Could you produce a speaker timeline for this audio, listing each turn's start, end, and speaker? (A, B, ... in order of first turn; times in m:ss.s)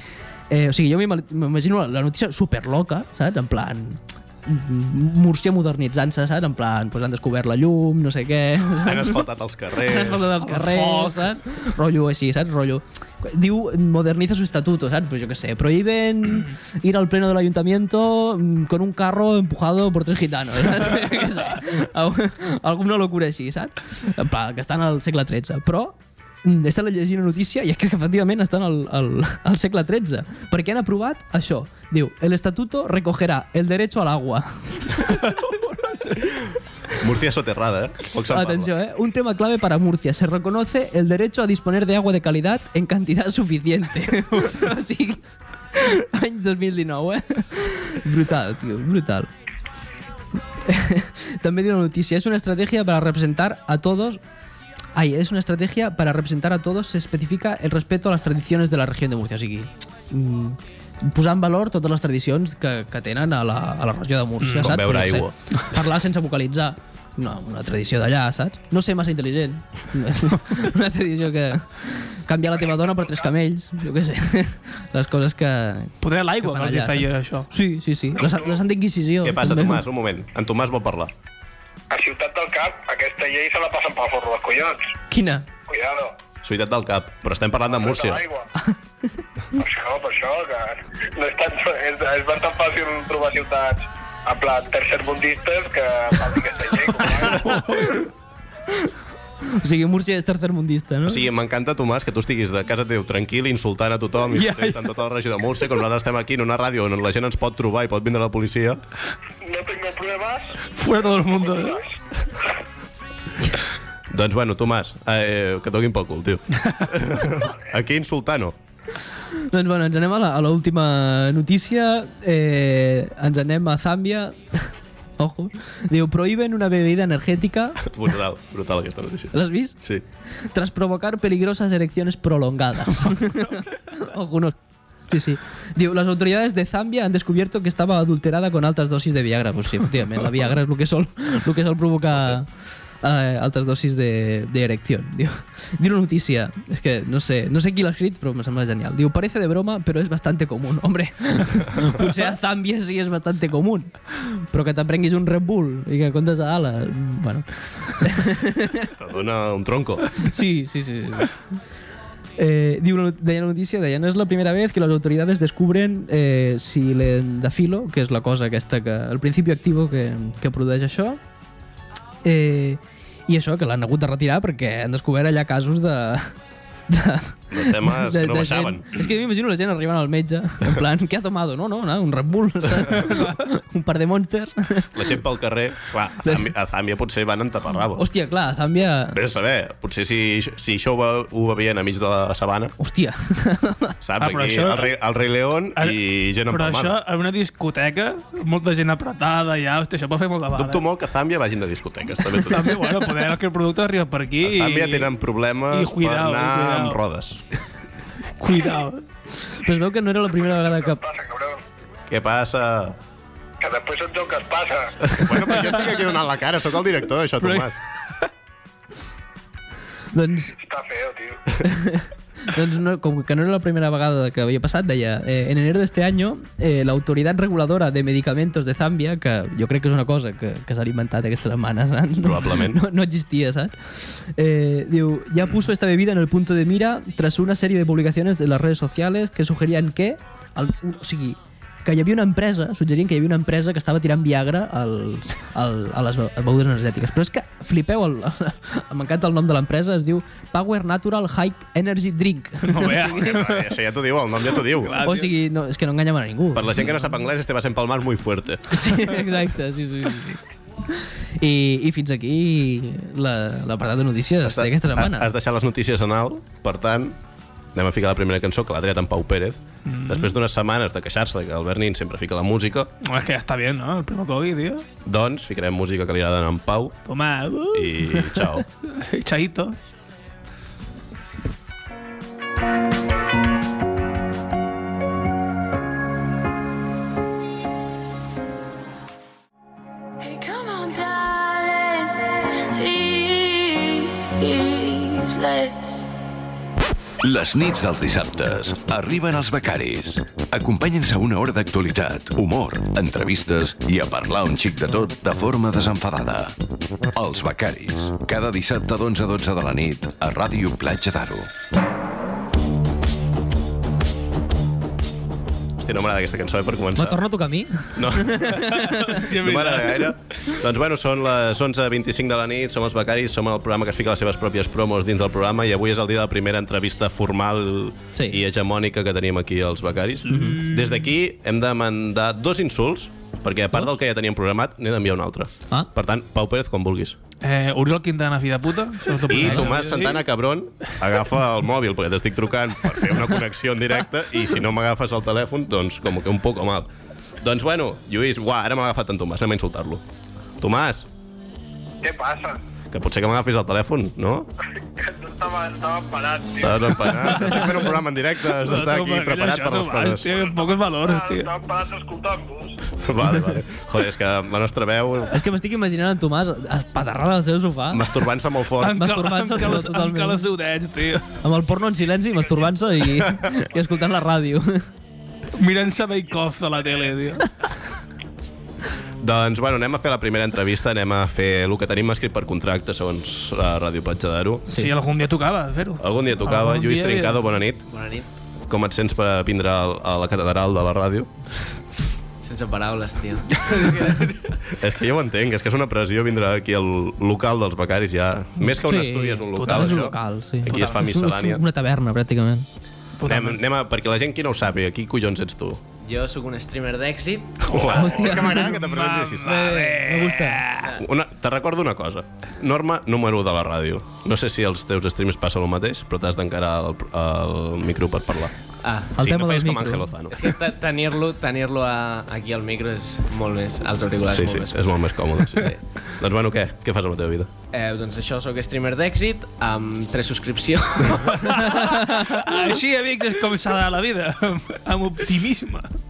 0:00.5-0:35.3 A
0:08.8-0:10.3 B
0:10.4-0:11.3 C
0:35.0-0:36.5 C
0:37.0-0:38.7 B
0:38.3-0:45.2 A
0:45.7-0:49.3 A
0:50.6-0:54.2 A
0:55.0-1:19.8 A
1:04.4-1:04.8 C
1:04.6-1:05.3 B
1:16.0-1:17.5 C
1:18.2-1:18.6 D
1:19.2-1:21.1 B
1:21.9-1:24.9 D
1:25.1-1:25.5 A
1:25.7-1:26.2 D
1:26.4-1:28.2 B
1:27.6-1:28.5 D
1:29.5-1:37.6 D
1:37.2-1:38.1 C
1:39.5-1:41.3 A
1:41.1-1:48.8 B
1:44.3-1:44.9 C
1:49.4-1:50.6 D
1:50.7-1:51.8 C
1:51.2-1:51.8 D
1:54.1-1:58.6 B
1:59.3-2:07.8 A
2:07.8-2:10.0 B
2:09.3-2:09.8 A
2:10.3-2:14.6 A
2:15.1-2:22.5 A
2:23.0-2:38.9 A
2:39.0-2:40.1 B
2:40.2-2:41.3 A
2:42.4-2:51.2 A
2:52.2-2:56.3 A
2:56.9-3:05.1 A
2:57.5-2:59.1 B
3:04.9-3:08.1 B
3:06.2-3:06.5 A
3:08.0-3:09.2 A
3:09.1-3:12.8 B
3:12.8-3:14.0 A
3:14.0-3:17.0 B
3:14.2-3:15.0 C
3:16.5-3:20.8 C
3:20.5-3:22.8 B
3:22.3-3:25.1 C
3:24.4-3:27.4 B
3:25.7-3:27.0 C
3:28.4-3:29.0 C
3:29.5-3:31.0 A
3:30.4-3:31.6 D
3:32.1-3:33.0 B
3:33.6-3:35.4 D
3:35.0-3:37.8 B
3:37.4-3:37.7 C
3:40.1-3:40.6 A
3:40.6-3:41.6 D
3:41.6-4:13.3 A
3:52.2-3:52.8 B
4:12.6-4:13.8 C
4:12.9-4:15.0 B
4:14.5-4:15.3 C
4:15.0-4:16.9 A
4:16.5-4:19.1 B
4:18.7-4:25.3 A
4:24.4-4:27.2 B
4:27.7-4:32.9 B
4:29.9-4:30.3 C
4:33.0-4:34.8 C
4:35.0-4:37.0 B
4:37.1-4:39.8 C
4:37.7-4:38.6 B
4:50.2-4:56.0 E
4:57.2-5:06.5 F
5:07.1-5:11.5 F
5:15.8-5:17.2 B
5:17.0-5:19.2 A
5:18.0-5:37.2 B
5:18.6-5:20.2 C
5:30.3-5:31.0 C
5:30.3-5:30.6 A
5:37.4-5:40.2 C
5:39.2-5:46.9 B
5:39.4-5:39.7 A
5:47.4-5:50.0 B
5:50.6-5:51.1 B
5:52.0-5:52.6 D
5:52.9-5:54.5 B
5:54.8-5:57.7 D
5:56.6-6:00.5 B
5:58.6-6:01.5 C
6:00.4-6:02.8 D
6:03.0-6:05.4 B
6:05.3-6:08.1 A
6:07.9-6:09.1 B
6:08.8-6:11.3 C
6:08.9-6:10.5 A
6:11.4-6:14.9 A
6:15.6-6:17.6 C
6:19.2-6:24.7 B
6:24.7-6:27.4 C
6:26.0-6:27.8 B
6:27.9-6:28.3 G
6:28.7-6:31.3 B
6:32.4-6:34.6 G
6:34.8-6:41.6 B
6:38.6-6:42.7 A
6:39.6-6:40.1 C
6:43.2-6:43.6 C
6:43.2-6:45.8 B
6:46.0-6:48.0 G
6:47.7-6:49.6 B
6:47.8-6:50.9 C
6:47.8-6:48.7 A
6:49.4-6:50.6 A
6:51.0-6:58.6 B
6:58.8-6:59.2 G
6:59.2-7:00.1 A
6:59.2-7:00.5 B
7:00.3-7:05.0 G
7:04.3-7:07.5 B
7:07.7-7:12.2 G
7:11.4-7:15.9 C